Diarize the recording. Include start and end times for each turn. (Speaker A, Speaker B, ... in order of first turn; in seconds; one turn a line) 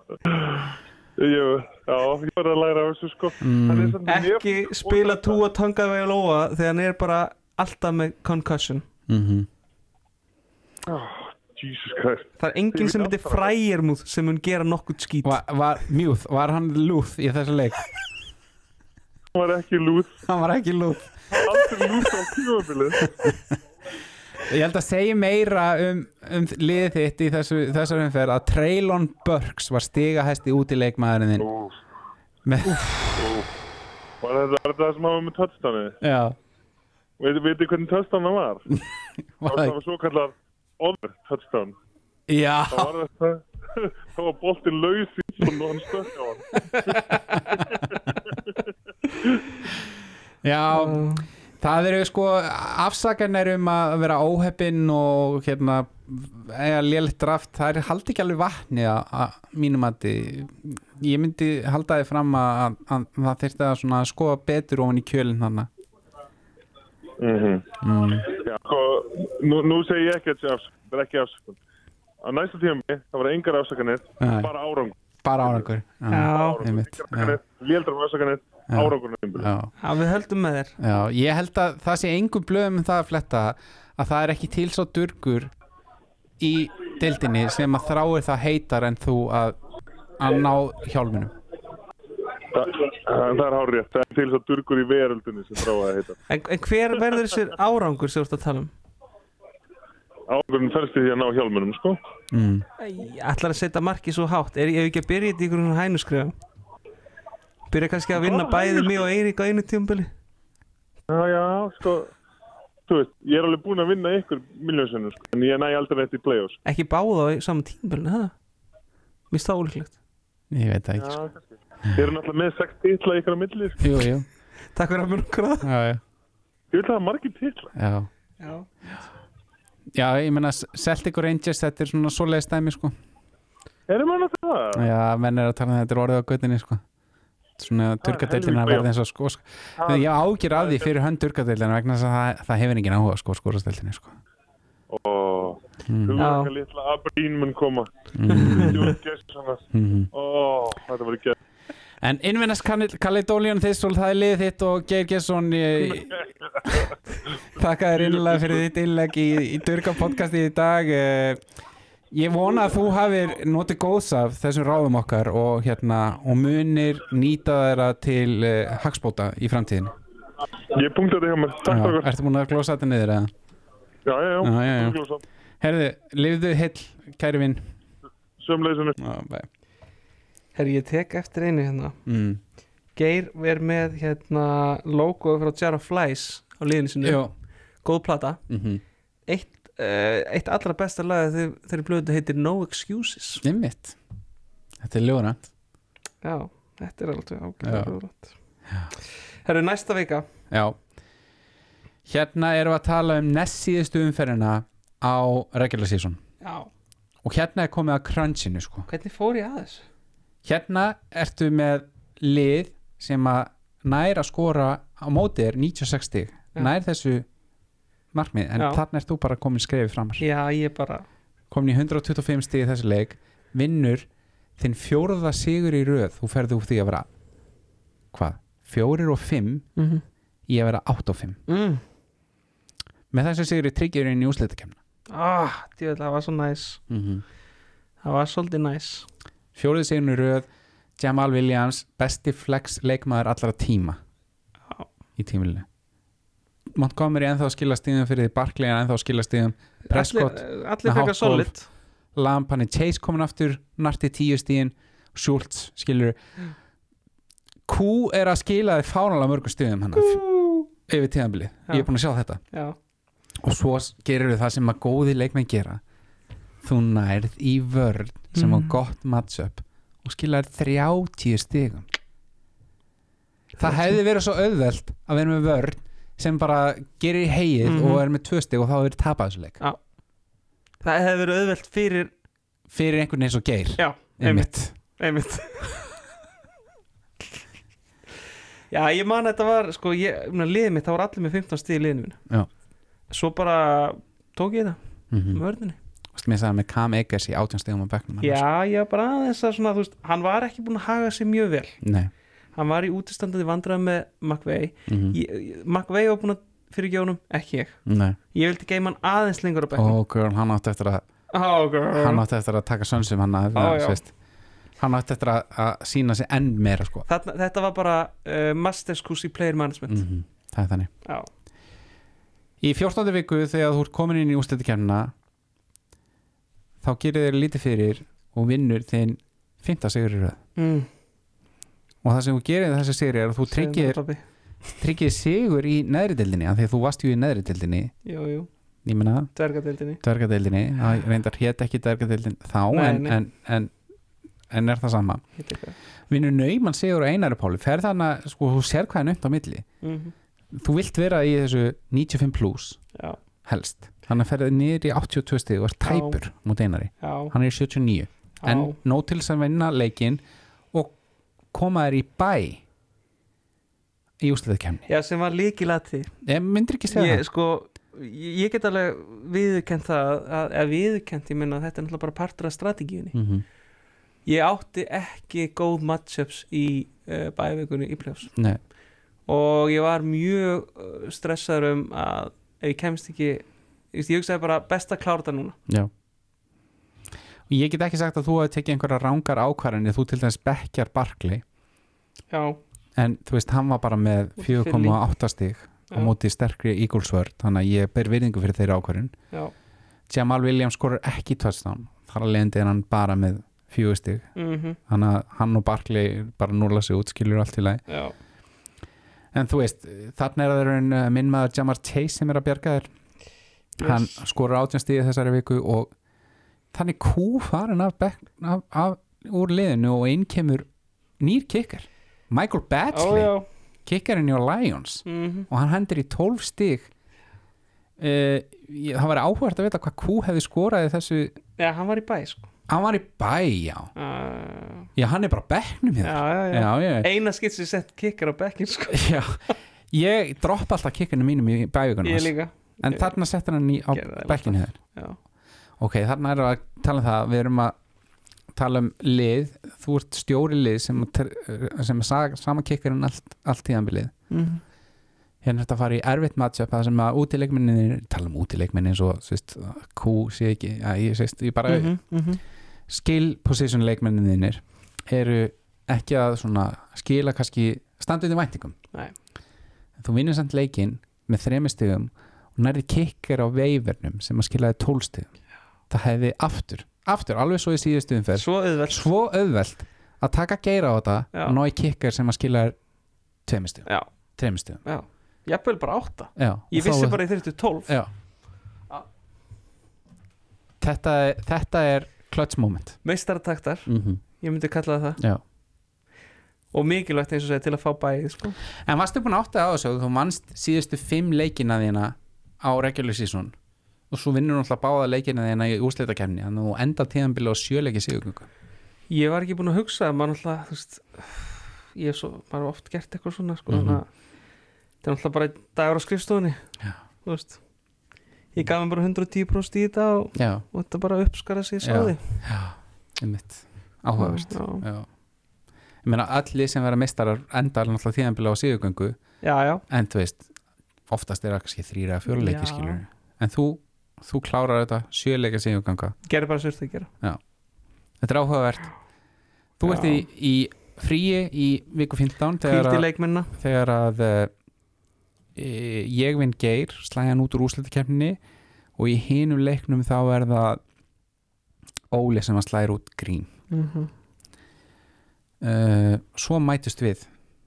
Speaker A: 0.3-5.4
Speaker B: 3.4-4.0
Speaker C: 4.0-8.9
Speaker B: 9.1-9.5
Speaker A: 10.9-13.5
Speaker C: 12.4-15.4
Speaker B: 15.2-17.9
Speaker A: 19.3-20.2
Speaker B: 20.3-22.1
Speaker A: 21.3-23.1
Speaker B: 23.1-23.6
Speaker B: 24.4-31.5
Speaker A: 31.4-31.8
Speaker B: 32.4-33.2
Speaker A: 33.2-33.5
Speaker A: 34.2-36.0
Speaker B: 36.0-36.4
Speaker A: 37.2-38.7
Speaker B: 39.4-39.8
Speaker A: 39.5-41.8
Speaker B: 42.3-42.9
Speaker A: 42.7-48.5
Speaker B: 46.7-47.9
Speaker B: 50.4-65.7
Speaker C: 50.7-51.3
Speaker A: 67.2-71.6
Speaker B: 67.8-68.3
Speaker A: 72.2-75.0
Speaker B: 74.2-74.5
Speaker B: 75.2-77.4
Speaker C: 76.1-76.6
Speaker A: 76.3-79.5
Speaker B: 78.7-79.7
Speaker C: 79.8-80.8
Speaker B: 80.8-85.5
Speaker B: 86.4-89.6
Speaker B: 90.2-91.3
Speaker A: 92.5-96.2
Speaker C: 96.3-98.7
Speaker A: 100.3-102.0
Speaker B: 102.3-102.7
Speaker C: 102.8-106.4
Speaker C: 107.7-110.1
Speaker A: 108.2-109.0
Speaker A: 111.1-112.1
Speaker A: 112.9-116.6
Speaker C: 116.7-118.3
Speaker C: 119.3-120.0
Speaker B: 120.5-121.2
Speaker A: 121.0-123.9
Speaker B: 123.8-124.3
Speaker C: 124.7-125.7
Speaker B: 125.6-126.0
Speaker A: 126.7-127.7
Speaker B: 127.8-128.1
Speaker C: 128.4-129.1
Speaker B: 129.9-133.0
Speaker A: 133.9-134.8
Speaker B: 134.8-136.8
Speaker B: 137.6-144.2
Speaker A: 138.0-138.9
Speaker A: 139.8-140.9
Speaker A: 144.9-147.9
Speaker B: 145.9-146.2
Speaker C: 146.2-146.5
Speaker B: 148.1-148.9
Speaker C: 148.3-148.8
Speaker A: 148.5-151.4
Speaker B: 149.7-150.1
Speaker B: 152.0-161.4
Speaker A: 158.2-158.6
Speaker B: 162.1-169.9
Speaker A: 170.7-172.1
Speaker B: 171.7-173.3
Speaker A: 174.1-175.2
Speaker B: 174.4-175.0
Speaker B: 175.6-177.7
Speaker A: 178.4-179.0
Speaker B: 179.0-179.5
Speaker C: 180.6-182.0
Speaker B: 182.1-182.4
Speaker C: 183.0-187.2
Speaker B: 187.0-187.3
Speaker C: 187.8-188.4
Speaker B: 188.5-188.8
Speaker C: 189.3-193.4
Speaker B: 193.4-194.0
Speaker B: 194.8-195.5
Speaker C: 196.2-198.3
Speaker B: 197.6-197.9
Speaker C: 199.4-200.3
Speaker B: 200.5-200.8
Speaker B: 202.1-206.2
Speaker C: 206.4-206.7
Speaker B: 207.2-208.9
Speaker C: 208.9-209.9
Speaker B: 210.4-217.3
Speaker B: 218.1-220.2
Speaker C: 220.2-221.1
Speaker B: 221.5-224.1
Speaker B: 224.6-227.1
Speaker B: 228.1-229.7
Speaker C: 229.8-230.0
Speaker B: 230.5-231.4
Speaker C: 231.5-231.8
Speaker B: 233.1-234.8
Speaker C: 235.1-236.8
Speaker B: 236.9-237.2
Speaker C: 238.0-239.1
Speaker B: 239.6-244.0
Speaker B: 245.2-245.7
Speaker B: 246.7-251.5
Speaker C: 249.9-251.7
Speaker B: 252.2-256.2
Speaker B: 257.7-260.2
Speaker C: 259.9-260.7
Speaker B: 260.9-262.4
Speaker B: 263.4-265.8
Speaker B: 266.6-271.9
Speaker C: 268.3-268.8
Speaker B: 273.6-279.6
Speaker C: 277.6-278.0
Speaker C: 280.8-282.1
Speaker B: 282.7-284.7
Speaker C: 283.8-285.9
Speaker C: 288.7-292.2
Speaker C: 293.1-294.8
Speaker B: 295.1-295.4
Speaker C: 295.3-295.8
Speaker B: 296.1-298.4
Speaker C: 298.2-301.8
Speaker B: 301.8-302.1
Speaker C: 302.6-307.8
Speaker B: 304.9-305.2
Speaker B: 307.9-308.2
Speaker C: 308.3-310.0
Speaker B: 309.8-311.1
Speaker C: 311.3-312.2
Speaker B: 311.9-314.1
Speaker C: 313.5-314.0
Speaker B: 314.8-317.1
Speaker C: 317.1-320.0
Speaker B: 319.9-320.9
Speaker B: 322.6-325.1
Speaker B: 326.8-330.4
Speaker C: 330.6-330.9
Speaker B: 332.0-334.0
Speaker C: 333.5-334.2
Speaker B: 334.8-337.9
Speaker C: 338.1-338.5
Speaker B: 338.9-339.3
Speaker C: 339.4-340.0
Speaker B: 340.0-343.7
Speaker C: 342.7-343.2
Speaker B: 344.5-345.2
Speaker C: 345.4-345.8
Speaker B: 346.1-349.7
Speaker C: 349.8-350.1
Speaker B: 350.5-352.8
Speaker B: 353.4-360.2
Speaker C: 355.9-356.2
Speaker C: 357.0-357.3
Speaker C: 358.4-358.8
Speaker B: 361.5-362.6
Speaker B: 364.2-364.9
Speaker C: 364.9-366.1
Speaker B: 366.2-367.2
Speaker C: 366.9-373.2
Speaker B: 373.1-373.4
Speaker C: 374.3-378.3
Speaker C: 379.3-385.6
Speaker B: 387.5-391.4
Speaker C: 392.3-392.6
Speaker B: 393.0-399.1
Speaker C: 394.4-395.0
Speaker B: 400.1-404.3
Speaker C: 404.4-404.8
Speaker B: 404.9-407.8
Speaker C: 407.9-408.1
Speaker B: 409.3-412.9
Speaker C: 413.8-414.2
Speaker B: 413.8-415.9
Speaker B: 416.7-420.7
Speaker B: 421.2-423.3
Speaker C: 422.9-423.5
Speaker B: 423.9-426.9
Speaker C: 425.1-425.5
Speaker B: 428.0-431.4
Speaker C: 431.6-432.5
Speaker B: 432.7-433.9
Speaker C: 433.9-434.9
Speaker B: 435.0-437.1
Speaker C: 436.0-439.1
Speaker B: 438.9-444.8
Speaker C: 442.0-443.1
Speaker C: 443.9-445.2
Speaker B: 445.8-447.8
Speaker B: 448.5-454.1
Speaker C: 454.3-454.6
Speaker B: 455.4-461.9
Speaker C: 461.7-462.4
Speaker B: 462.9-468.8
Speaker B: 470.0-475.3
Speaker B: 475.9-482.8
Speaker C: 478.4-479.0
Speaker B: 483.5-484.8
Speaker C: 484.8-487.9
Speaker B: 486.4-487.2
Speaker B: 490.8-493.0
Speaker C: 493.0-493.9
Speaker B: 493.9-494.2
Speaker C: 494.4-495.2
Speaker C: 496.7-498.6
Speaker B: 498.8-503.6
Speaker B: 504.1-508.5
Speaker C: 509.1-514.1
Speaker B: 513.7-514.0
Speaker C: 515.0-516.6
Speaker C: 517.2-517.6
Speaker C: 518.5-522.2
Speaker B: 520.4-520.6
Speaker B: 521.8-525.1
Speaker C: 524.2-524.9
Speaker B: 526.0-529.2
Speaker C: 529.4-529.8
Speaker B: 529.9-530.5
Speaker B: 531.1-536.2
Speaker C: 532.3-533.0
Speaker C: 536.3-537.1
Speaker B: 538.2-538.9
Speaker B: 539.8-544.5
Speaker C: 539.9-540.2
Speaker C: 542.6-543.5
Speaker B: 545.5-548.4
Speaker B: 549.0-550.8
Speaker B: 552.1-553.5
Speaker C: 553.7-554.1
Speaker B: 555.6-557.3